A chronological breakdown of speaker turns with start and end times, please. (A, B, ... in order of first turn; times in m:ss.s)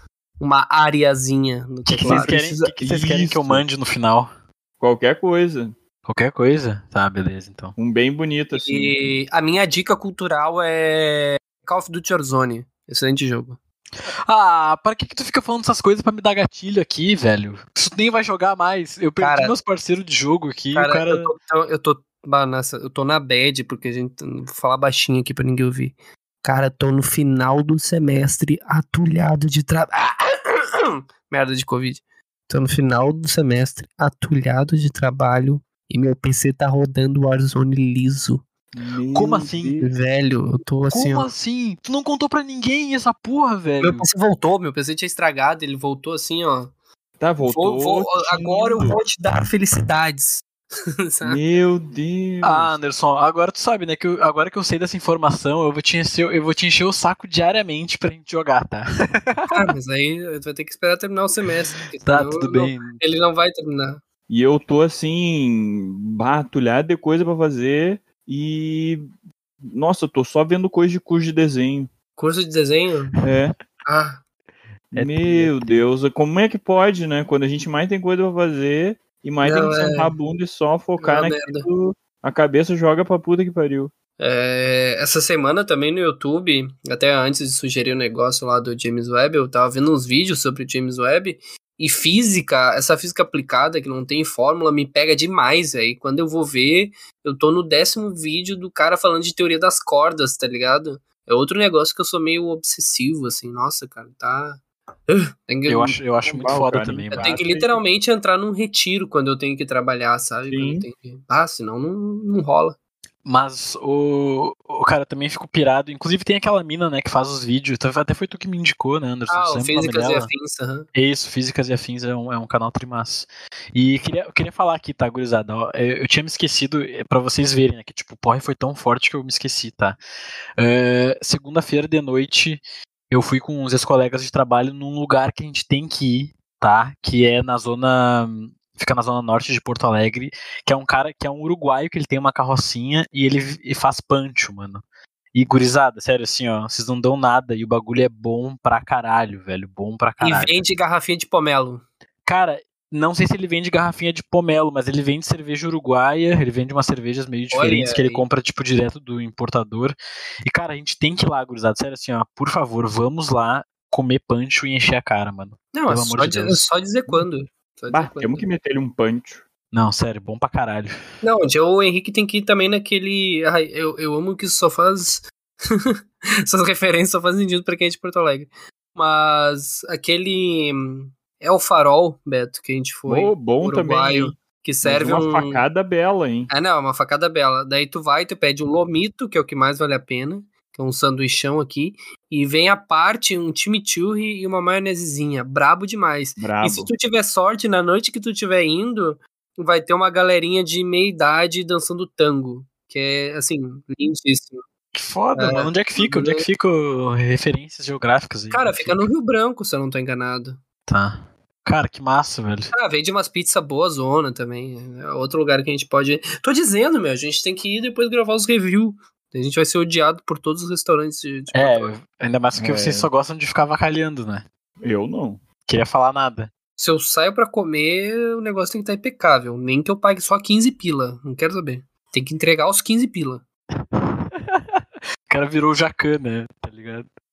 0:00.4-0:02.4 A
0:01.9-0:04.3 B
0:02.0-0:03.6 C
0:04.8-0:05.7 C
0:06.0-0:07.7 B
0:07.8-0:09.0 C
0:08.5-0:13.6 A
0:14.1-0:21.3 B
0:19.2-0:19.5 A
0:20.7-0:38.4 A
0:38.7-0:39.9 C
0:39.1-0:39.8 B
0:39.8-0:41.3 A
0:40.9-0:44.1 B
0:43.8-0:46.7 A
0:47.2-0:49.0 C
0:47.4-0:50.5 A
0:51.2-0:52.8 C
0:52.4-0:59.7 B
0:59.5-1:04.0 A
1:02.0-1:03.0 B
1:04.3-1:09.0 C
1:09.7-1:11.9 C
1:12.2-1:13.1 A
1:13.2-1:13.5 C
1:13.8-1:14.2 A
1:14.9-1:15.8 B
1:14.9-1:23.9 C
1:19.4-1:20.1 A
1:21.0-1:21.7 A
1:24.2-1:46.2 A
1:45.7-1:47.4 B
1:46.3-1:47.8 C
1:47.1-1:52.8 A
1:50.5-1:50.8 C
1:53.2-2:00.3 B
1:59.3-2:00.9 A
2:00.9-2:10.0 B
2:10.6-2:24.8 B
2:25.3-2:30.6 B
2:30.2-2:31.8 A
2:32.2-2:46.6 B
2:37.5-2:38.2 A
2:45.7-2:48.4 A
2:47.9-2:49.4 C
2:49.7-2:50.9 B
2:51.2-2:55.9 A
2:56.4-3:05.6 A
3:03.1-3:06.5 C
3:06.5-3:24.6 A
3:16.4-3:16.9 C
3:24.9-3:29.1 B
3:25.3-3:26.4 A
3:28.5-3:30.6 A
3:30.9-3:32.7 B
3:32.7-3:41.9 A
3:41.5-3:44.4 B
3:42.5-3:43.1 C
3:44.8-3:45.4 C
3:45.6-3:46.5 B
3:46.8-3:53.4 A
3:53.8-3:57.1 B